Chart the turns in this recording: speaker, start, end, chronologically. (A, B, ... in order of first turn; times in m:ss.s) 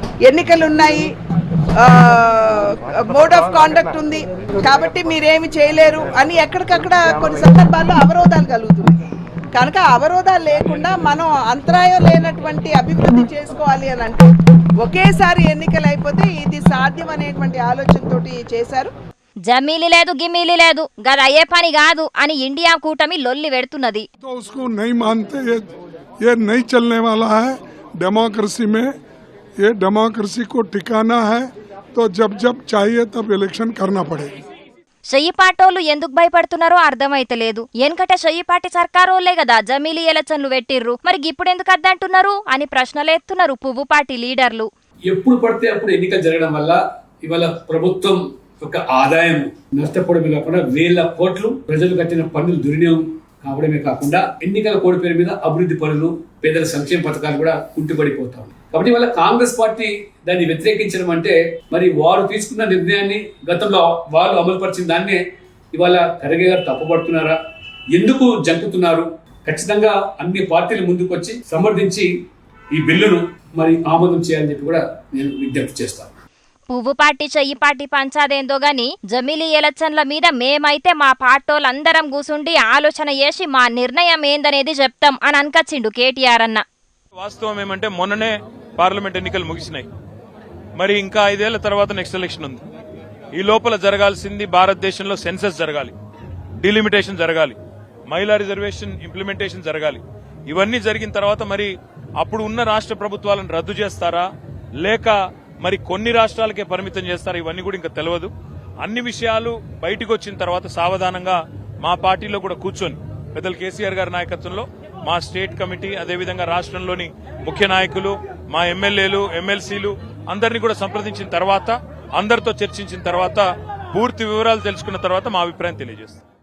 0:00.2-0:01.1 A
0:01.8-0:09.0 A
0:09.5-0:14.3 A
0:14.8-0:18.9 A
0:19.5-0:24.0 B
0:24.2-0:25.7 C
0:26.2-0:28.9 C
0:29.6-0:34.3 C
0:35.1-0:44.7 B
0:45.1-1:05.2 D
1:05.7-1:07.4 D
1:07.9-1:12.1 D
1:12.7-1:16.1 D
1:16.7-1:26.6 B
1:27.2-1:29.9 E
1:30.8-1:32.6 E
1:33.3-1:35.9 E
1:36.6-1:37.6 E
1:38.1-1:44.3 E
1:44.8-2:06.2 E